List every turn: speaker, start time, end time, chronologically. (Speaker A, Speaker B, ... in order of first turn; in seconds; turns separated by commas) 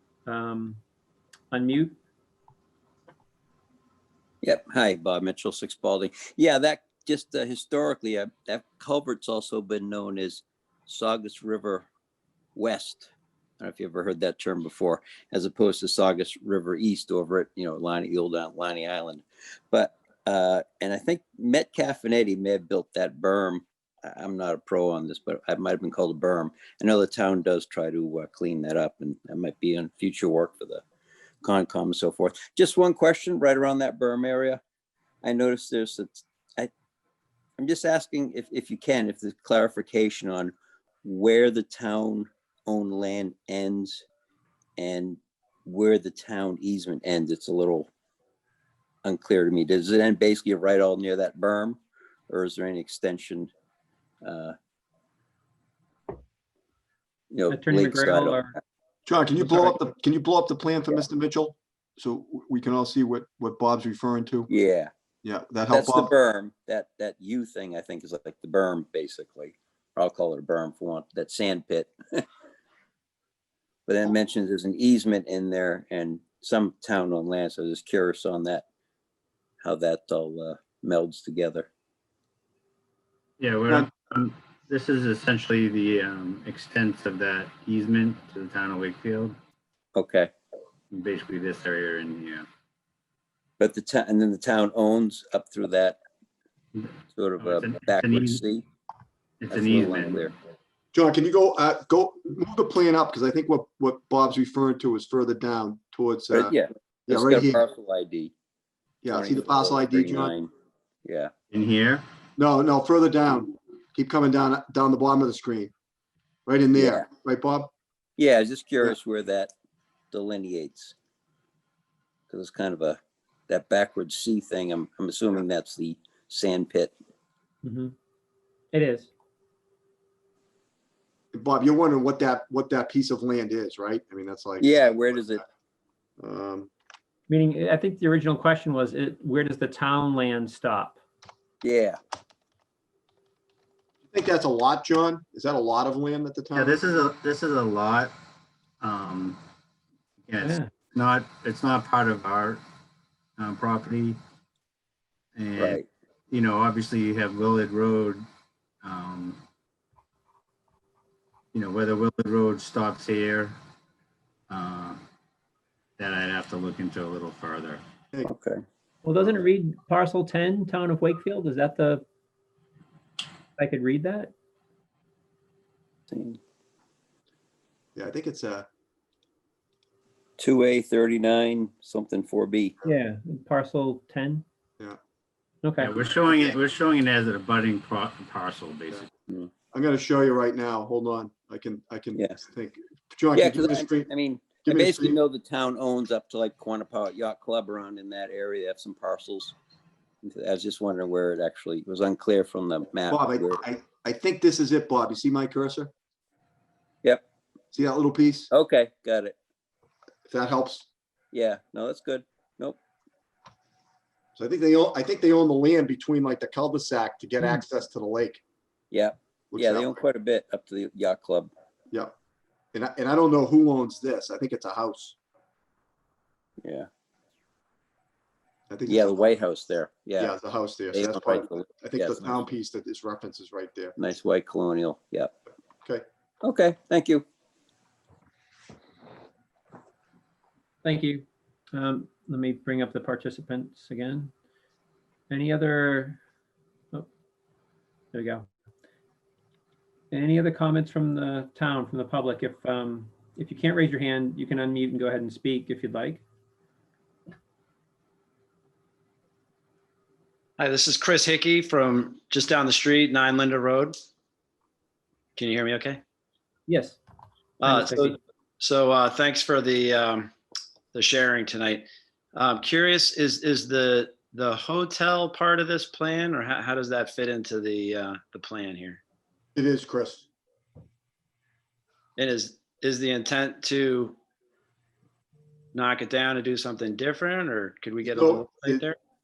Speaker A: 0.3-0.8, Speaker A: 1.5-1.9, Speaker B: 4.4-11.9, Speaker B: 12.6-30.8, Speaker B: 31.4-34.6, Speaker B: 35.2-36.7, Speaker B: 37.6-40.5, Speaker B: 41.0-44.0, Speaker B: 44.8-47.9, Speaker B: 49.0-51.8, Speaker B: 52.3-53.5, Speaker B: 54.2-54.5, Speaker B: 57.3-58.4, Speaker A: 57.5-58.5, Speaker C: 59.0-64.5, Speaker A: 59.5-59.7, Speaker B: 64.5-64.9, Speaker C: 65.2-66.1, Speaker B: 65.7-72.2, Speaker B: 73.9-78.6, Speaker B: 79.6-81.7, Speaker D: 83.4-89.3, Speaker B: 89.9-90.3, Speaker D: 90.9-92.5, Speaker B: 93.6-96.0, Speaker D: 96.8-98.4, Speaker B: 97.1-98.6, Speaker D: 99.4-100.2, Speaker B: 99.5-100.3, Speaker C: 100.9-106.6, Speaker B: 106.3-108.3, Speaker C: 107.1-107.6, Speaker C: 109.0-110.3, Speaker B: 109.1-110.5, Speaker B: 111.0-111.3, Speaker D: 111.5-112.0, Speaker C: 112.4-115.7, Speaker C: 116.5-117.7, Speaker B: 116.7-117.0, Speaker B: 118.2-119.5, Speaker B: 120.1-120.9, Speaker B: 122.3-126.9, Speaker A: 127.6-127.9, Speaker A: 128.7-129.1, Speaker C: 131.3-135.4, Speaker B: 134.6-135.4, Speaker C: 136.2-136.7, Speaker A: 137.3-141.0, Speaker B: 141.6-142.0, Speaker C: 144.1-146.8, Speaker D: 146.5-148.1, Speaker D: 148.8-149.4, Speaker D: 150.2-152.6, Speaker A: 150.4-150.7, Speaker D: 153.4-154.2, Speaker D: 155.4-158.2, Speaker B: 155.6-155.9, Speaker D: 158.8-159.4, Speaker D: 161.5-163.6, Speaker D: 164.5-165.0, Speaker D: 166.0-167.8, Speaker B: 168.2-168.6, Speaker A: 169.0-172.1, Speaker A: 173.6-174.3, Speaker B: 176.1-176.4, Speaker C: 178.0-178.7, Speaker B: 180.4-182.8, Speaker A: 182.8-184.4, Speaker A: 185.6-185.9, Speaker D: 185.8-189.1, Speaker C: 189.7-194.1, Speaker B: 193.3-199.5, Speaker C: 194.6-195.2, Speaker B: 200.2-203.6, Speaker C: 203.1-205.9, Speaker C: 207.7-208.5, Speaker B: 208.5-209.3, Speaker C: 210.3-210.9, Speaker B: 211.3-212.8, Speaker C: 214.4-218.4, Speaker B: 218.9-221.5, Speaker C: 219.5-220.1, Speaker C: 222.7-225.2, Speaker B: 226.6-226.9, Speaker C: 228.7-229.2, Speaker B: 228.9-230.3, Speaker C: 230.2-234.0, Speaker B: 230.9-232.5, Speaker B: 234.0-235.3, Speaker B: 236.4-237.2, Speaker A: 240.8-244.3, Speaker A: 245.3-246.2, Speaker A: 248.1-248.5, Speaker A: 250.1-256.2, Speaker E: 260.6-263.9, Speaker E: 265.4-266.0, Speaker A: 266.7-267.0, Speaker A: 267.6-268.2, Speaker E: 268.6-270.3, Speaker E: 270.9-271.8, Speaker E: 272.4-279.0, Speaker C: 279.5-280.3, Speaker E: 282.2-284.1, Speaker E: 285.7-288.9, Speaker C: 288.0-288.8